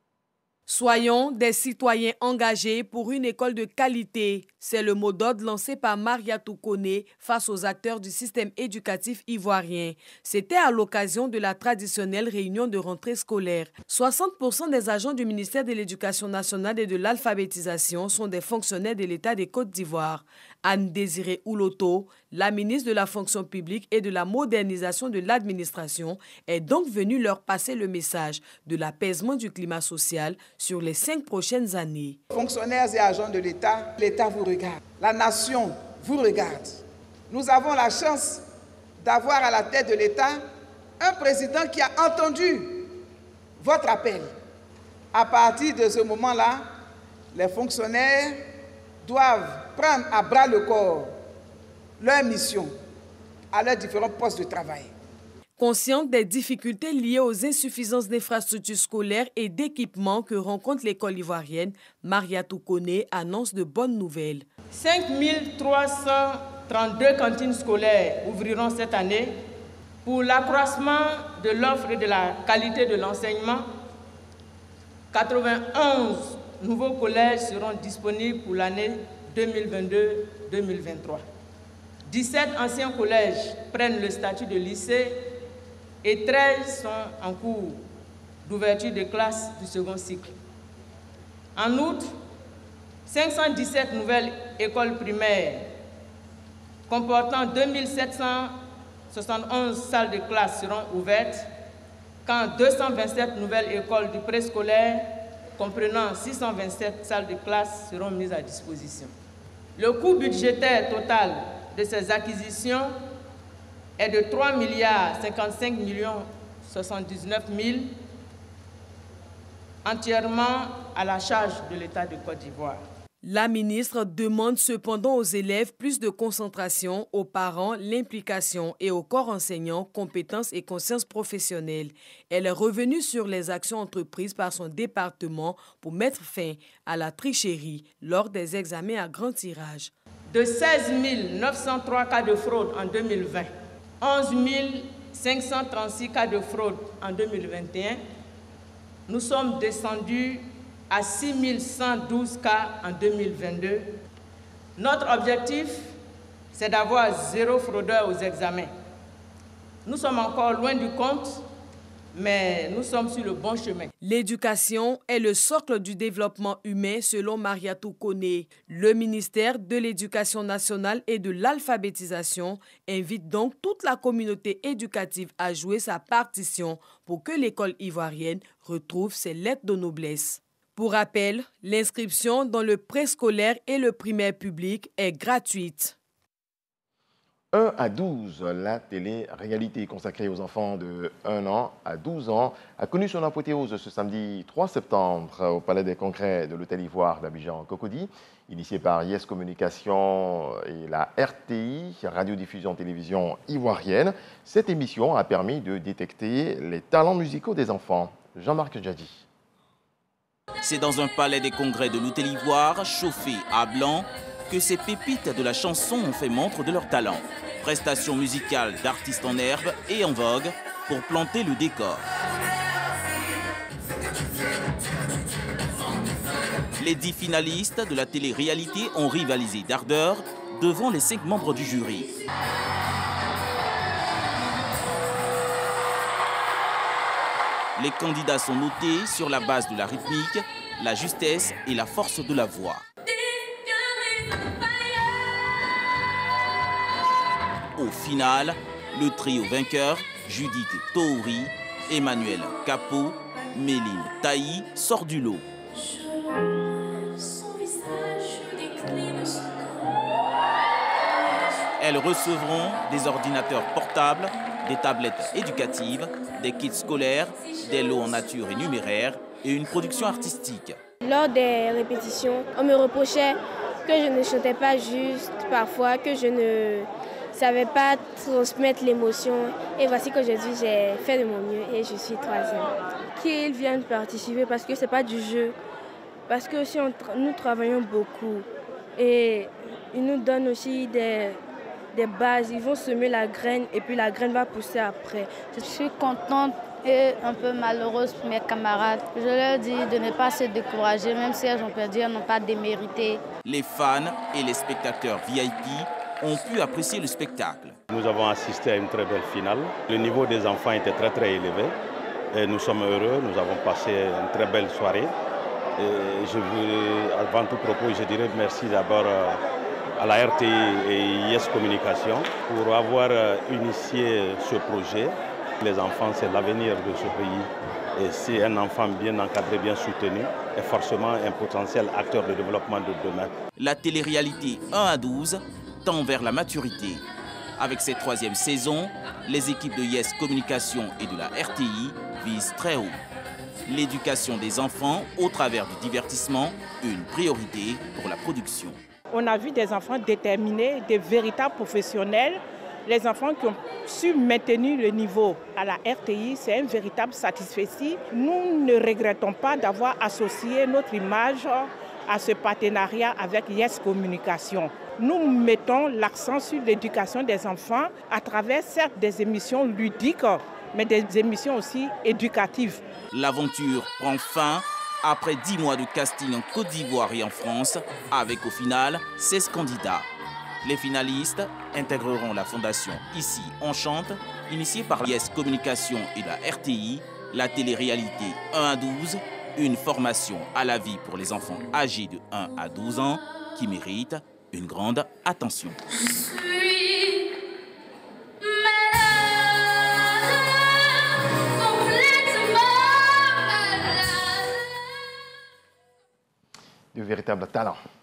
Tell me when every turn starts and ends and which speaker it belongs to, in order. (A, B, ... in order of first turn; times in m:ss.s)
0:00.7-0:32.2 A
0:32.3-0:36.7 B
0:37.3-0:38.4 B
0:39.0-0:40.3 B
0:41.1-0:42.6 B
0:43.6-0:44.2 B
0:45.1-0:46.5 B
0:47.4-0:48.2 B
0:49.0-0:51.0 B
0:52.0-0:52.7 B
0:53.5-0:54.2 B
0:55.6-1:04.5 A
1:04.7-1:09.3 C
1:10.0-1:13.6 C
1:15.1-1:21.2 C
1:22.1-1:25.1 C
1:26.0-1:27.8 C
1:28.4-1:30.3 C
1:31.5-1:32.0 C
1:33.0-1:35.7 C
1:36.9-1:38.5 C
1:39.1-1:41.5 C
1:42.2-1:45.0 C
1:45.6-1:49.1 C
1:49.8-1:52.9 C
1:54.0-1:57.9 C
1:59.8-2:02.8 C
2:03.2-2:19.9 A
2:20.3-2:23.5 C
2:24.0-2:28.0 C
2:29.1-2:33.8 C
2:34.8-2:35.8 C
2:36.5-2:38.7 C
2:39.8-2:41.4 C
2:42.1-2:43.9 C
2:44.0-3:06.0 A
3:07.5-3:29.2 D
3:30.6-3:42.0 E
3:46.8-3:52.1 E
3:57.8-4:02.8 E
4:07.8-4:15.4 E
4:21.8-4:30.8 E
4:31.0-4:45.6 F
4:46.3-4:48.4 F
4:49.0-4:51.4 F
4:51.9-4:55.5 F
4:55.5-5:03.2 G
5:03.4-5:07.8 E
5:07.9-5:11.8 H
5:12.3-5:15.1 H
5:15.8-5:19.4 H
5:20.0-5:33.3 H
5:33.6-5:37.0 E
5:37.6-5:43.0 E
5:43.6-5:48.8 E
5:49.1-6:12.8 I
6:13.1-6:20.1 E
6:20.6-6:35.8 E
6:46.9-6:47.8 D